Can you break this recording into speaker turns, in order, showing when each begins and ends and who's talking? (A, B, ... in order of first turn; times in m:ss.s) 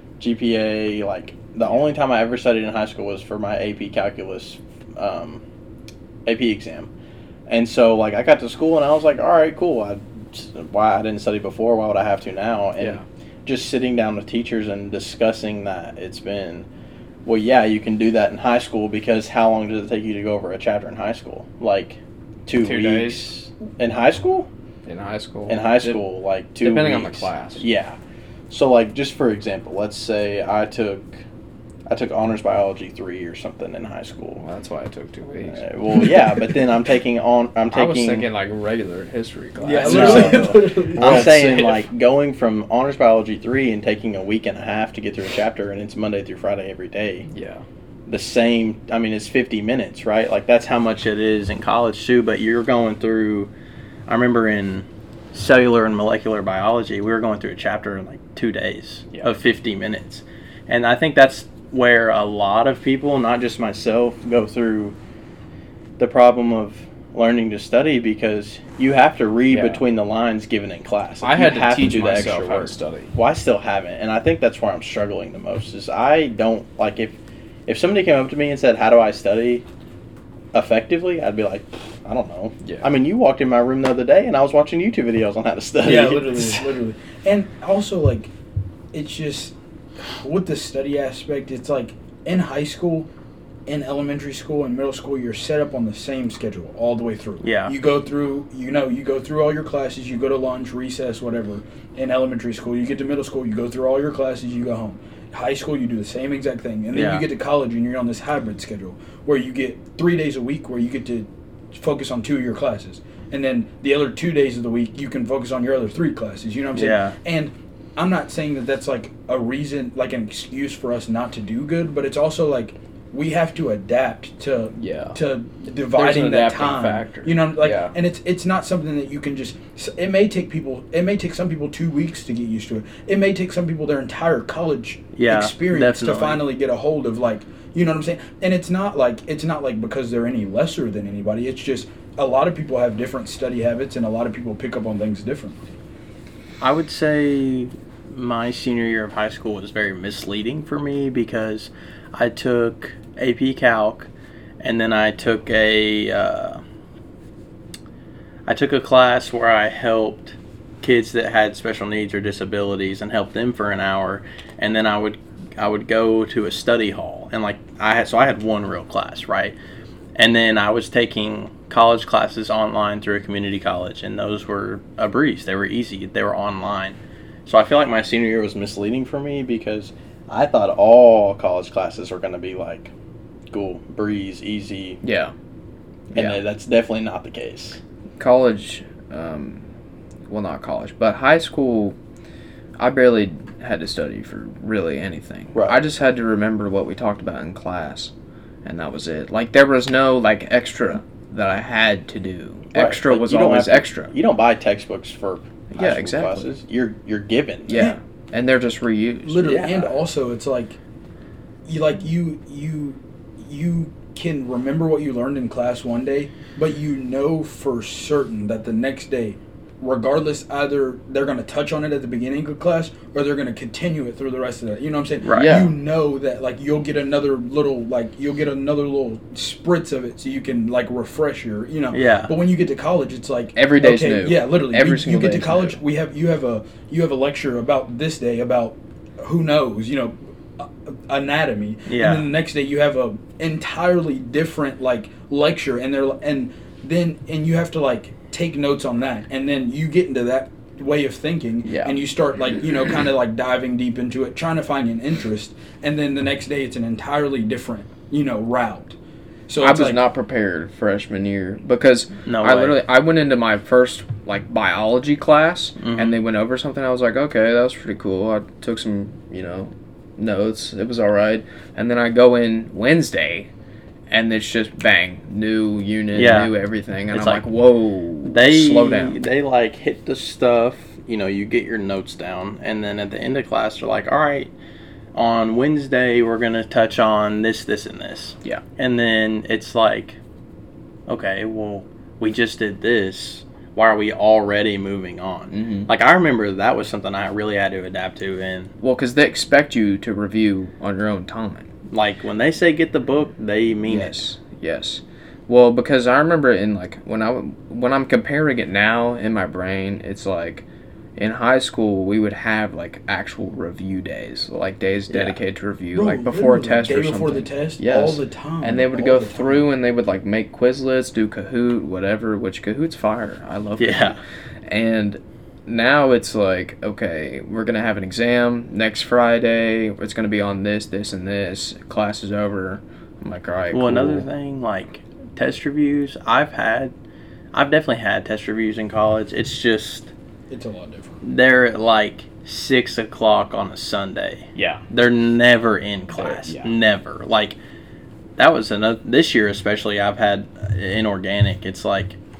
0:00.2-0:05.4 A
0:06.2-0:06.9 A
0:07.5-0:16.6 A
0:12.8-0:13.0 B
0:17.2-0:24.5 A
0:22.5-0:23.3 B
0:24.8-0:26.0 B
0:25.5-0:28.0 A
0:26.6-0:27.6 B
0:28.5-0:31.1 A
0:31.9-0:34.4 A
0:34.4-0:36.1 B
0:35.5-0:38.3 A
0:37.7-0:41.8 B
0:39.6-0:41.3 C
0:39.8-0:47.3 A
0:47.3-0:47.6 B
0:48.1-0:53.5 A
0:54.1-1:05.0 A
1:06.0-1:17.2 A
1:09.5-1:09.8 B
1:11.2-1:13.1 B
1:17.7-1:19.6 A
1:20.5-1:26.7 A
1:22.6-1:22.9 B
1:25.8-1:28.3 C
1:28.9-1:33.1 C
1:33.7-2:25.8 C
1:37.4-1:37.7 A
1:46.9-1:47.2 A
1:56.7-1:57.2 A
2:04.8-2:05.2 B
2:05.9-2:07.9 B
2:15.1-2:16.4 A
2:26.6-2:34.1 A
2:34.6-2:36.6 A
2:38.5-2:49.5 A
2:50.2-3:02.9 A
3:03.5-3:05.0 A
3:05.0-3:05.3 B
3:06.1-3:06.4 B
3:06.1-3:07.8 A
3:08.2-3:09.6 B
3:10.3-3:12.0 B
3:12.8-3:18.1 B
3:18.6-3:24.1 B
3:22.7-3:27.9 A
3:25.7-3:26.6 B
3:27.7-3:29.5 B
3:29.2-3:30.8 C
3:29.4-3:29.9 A
3:31.6-4:19.0 C
3:45.2-3:45.6 A
3:45.3-3:45.7 B
3:51.9-3:52.3 A
3:53.6-3:55.8 B
4:01.9-4:02.2 A
4:11.6-4:12.0 B
4:19.5-4:20.0 C
4:19.6-4:33.5 B
4:22.2-4:22.8 A
4:25.8-4:26.2 A
4:34.1-4:39.2 B
4:36.1-4:36.5 A
4:37.1-4:37.4 A
4:38.2-4:44.5 A
4:45.1-4:50.2 A
4:51.1-4:58.7 A
4:55.5-4:55.9 B
4:58.8-5:01.7 B
5:01.9-5:04.2 A
5:03.9-5:10.6 B
5:11.2-5:34.3 B
5:15.1-5:15.4 A
5:15.9-5:19.6 C
5:23.8-5:24.2 A
5:33.7-5:36.9 A
5:37.5-5:40.1 A
5:40.5-5:41.2 C
5:41.2-5:47.6 A
5:44.5-5:44.8 B
5:46.2-5:46.7 B
5:48.4-5:52.2 A